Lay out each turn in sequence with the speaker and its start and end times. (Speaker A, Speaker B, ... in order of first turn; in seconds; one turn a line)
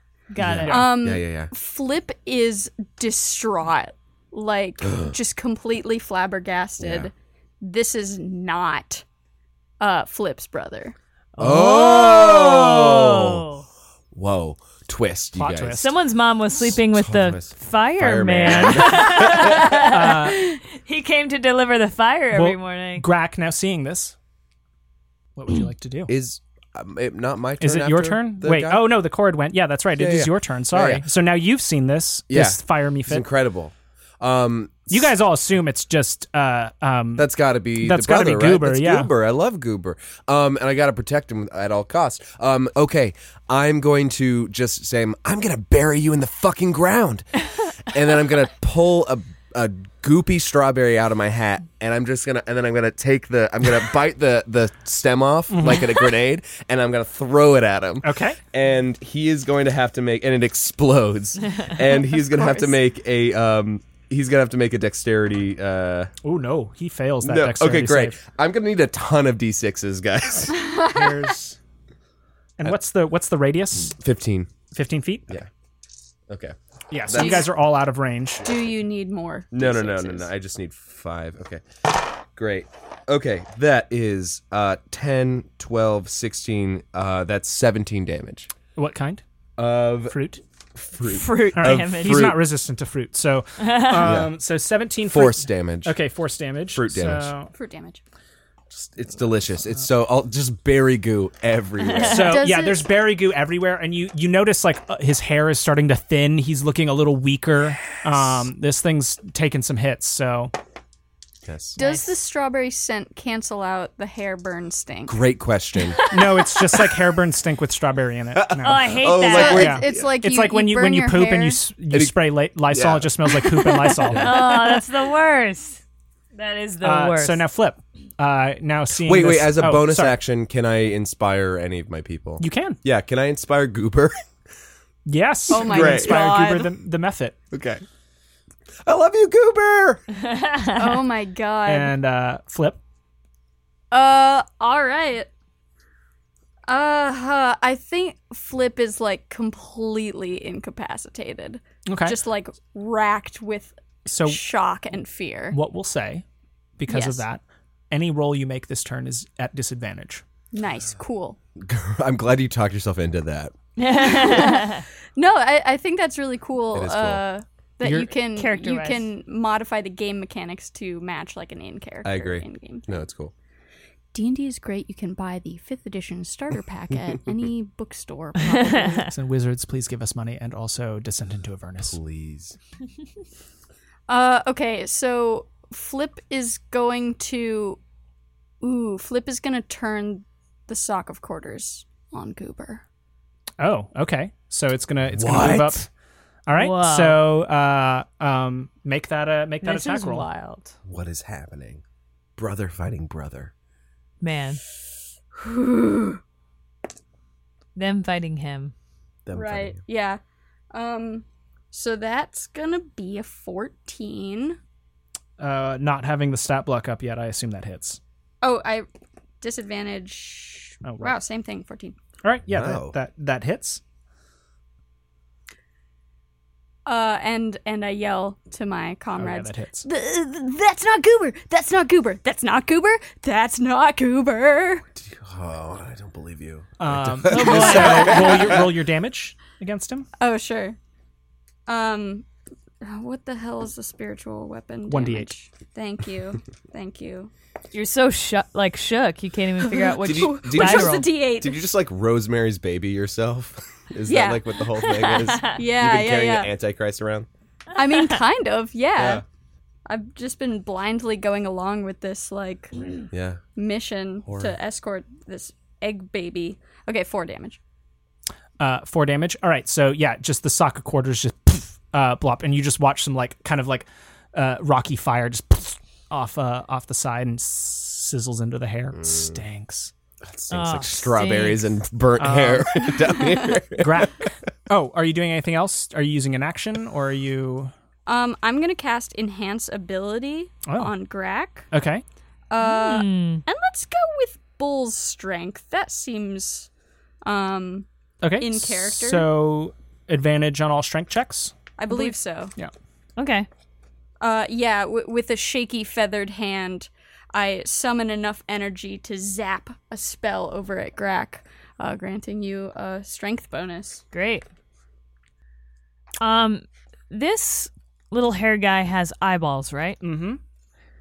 Speaker A: 0.3-0.8
Speaker B: 0.4-1.5
Speaker C: 0.6-0.9
Speaker D: 0.7-9.0
Speaker B: 4.8-5.2
Speaker B: 6.8-7.1
Speaker D: 9.8-10.9
Speaker A: 11.4-13.7
Speaker B: 11.4-13.5
Speaker B: 14.1-15.8
Speaker C: 15.3-15.9
Speaker A: 15.8-23.1
Speaker B: 16.6-19.9
Speaker C: 19.8-20.4
Speaker C: 22.3-24.1
Speaker C: 25.4-26.1
Speaker B: 26.1-29.0
Speaker C: 27.6-33.3
Speaker B: 30.0-31.1
Speaker B: 32.3-35.1
Speaker C: 34.9-39.1
Speaker B: 37.2-47.3
Speaker B: 47.8-66.1
Speaker C: 55.5-55.9
Speaker C: 58.0-58.4
Speaker D: 62.1-62.8
Speaker C: 66.2-68.2
Speaker B: 67.2-70.6
Speaker C: 70.8-71.6
Speaker C: 72.6-74.0
Speaker B: 73.9-74.5
Speaker C: 74.7-75.4
Speaker B: 76.3-77.5
Speaker C: 76.9-78.5
Speaker D: 77.2-77.5
Speaker D: 78.4-80.3
Speaker B: 79.5-88.5
Speaker C: 88.8-89.2
Speaker B: 89.6-90.2
Speaker C: 90.1-90.4
Speaker B: 90.8-92.4
Speaker A: 91.0-92.3
Speaker C: 91.5-97.5
Speaker A: 93.6-94.2
Speaker B: 94.0-94.3
Speaker B: 95.0-96.0
Speaker B: 96.7-97.3
Speaker D: 97.5-98.0
Speaker B: 98.7-102.5
Speaker A: 101.8-102.3
Speaker C: 102.1-110.5
Speaker D: 102.2-102.8
Speaker B: 111.4-111.8
Speaker D: 111.8-115.2
Speaker A: 111.8-112.0
Speaker B: 115.1-116.0
Speaker C: 116.1-124.4
Speaker B: 118.3-120.1
Speaker A: 118.6-119.7
Speaker D: 119.3-121.6
Speaker B: 121.9-122.2
Speaker B: 122.7-124.5
Speaker A: 124.2-125.8
Speaker A: 126.3-127.4
Speaker C: 126.8-130.2
Speaker B: 129.0-134.2
Speaker C: 132.4-132.8
Speaker C: 135.1-137.4
Speaker D: 135.5-136.7
Speaker B: 135.5-136.2
Speaker B: 137.5-137.8
Speaker B: 138.8-140.0
Speaker A: 140.3-141.0
Speaker D: 140.7-141.9
Speaker C: 141.7-142.8
Speaker D: 143.9-145.3
Speaker D: 146.7-155.6
Speaker C: 151.9-152.2
Speaker C: 154.1-154.4
Speaker C: 155.5-156.2
Speaker C: 156.8-160.2
Speaker D: 156.9-157.2
Speaker D: 160.5-161.4
Speaker B: 161.6-163.5
Speaker A: 163.8-164.8
Speaker D: 163.8-172.9
Speaker B: 166.7-167.2
Speaker C: 167.8-168.1
Speaker A: 168.3-169.1
Speaker B: 172.0-173.3
Speaker D: 174.1-179.1
Speaker C: 179.1-182.0
Speaker B: 181.8-182.6
Speaker D: 184.1-187.8
Speaker D: 188.6-192.8
Speaker C: 193.6-195.9
Speaker B: 195.1-195.8
Speaker C: 196.5-200.3
Speaker A: 196.6-197.3
Speaker A: 199.6-200.8
Speaker B: 200.9-201.8
Speaker B: 202.4-203.5
Speaker A: 204.2-204.6
Speaker D: 205.4-206.2
Speaker A: 207.8-208.7
Speaker B: 209.3-209.8
Speaker D: 209.3-210.2
Speaker D: 210.7-214.6
Speaker C: 215.4-218.0
Speaker D: 218.4-218.9
Speaker D: 219.4-222.0
Speaker C: 220.8-221.2
Speaker C: 222.2-223.8
Speaker B: 222.5-223.0
Speaker D: 226.9-229.5
Speaker C: 229.2-229.9
Speaker E: 229.9-232.1
Speaker D: 231.7-234.8
Speaker B: 235.0-238.7
Speaker C: 236.8-240.1
Speaker D: 237.3-238.5
Speaker D: 240.2-240.8
Speaker D: 241.7-242.3
Speaker D: 242.8-247.3
Speaker C: 244.9-245.3
Speaker A: 247.7-251.1
Speaker D: 249.6-251.6
Speaker B: 250.0-257.3
Speaker D: 254.1-256.5
Speaker A: 254.9-255.6
Speaker D: 257.8-259.2
Speaker B: 259.0-259.2
Speaker D: 259.9-262.7
Speaker B: 263.1-263.4
Speaker D: 263.6-267.6
Speaker B: 264.2-264.6
Speaker C: 268.6-279.9
Speaker B: 278.9-279.4
Speaker B: 280.2-284.3
Speaker A: 280.5-281.6
Speaker C: 282.2-282.9
Speaker C: 283.8-287.7
Speaker D: 288.1-291.7
Speaker C: 290.7-290.9
Speaker C: 291.7-292.0
Speaker D: 292.5-296.7
Speaker A: 292.6-293.4
Speaker D: 297.2-299.3
Speaker C: 298.2-302.7
Speaker D: 301.8-302.5
Speaker A: 303.2-303.5
Speaker D: 304.2-314.0
Speaker A: 314.1-314.4
Speaker A: 316.2-320.0
Speaker C: 320.0-320.4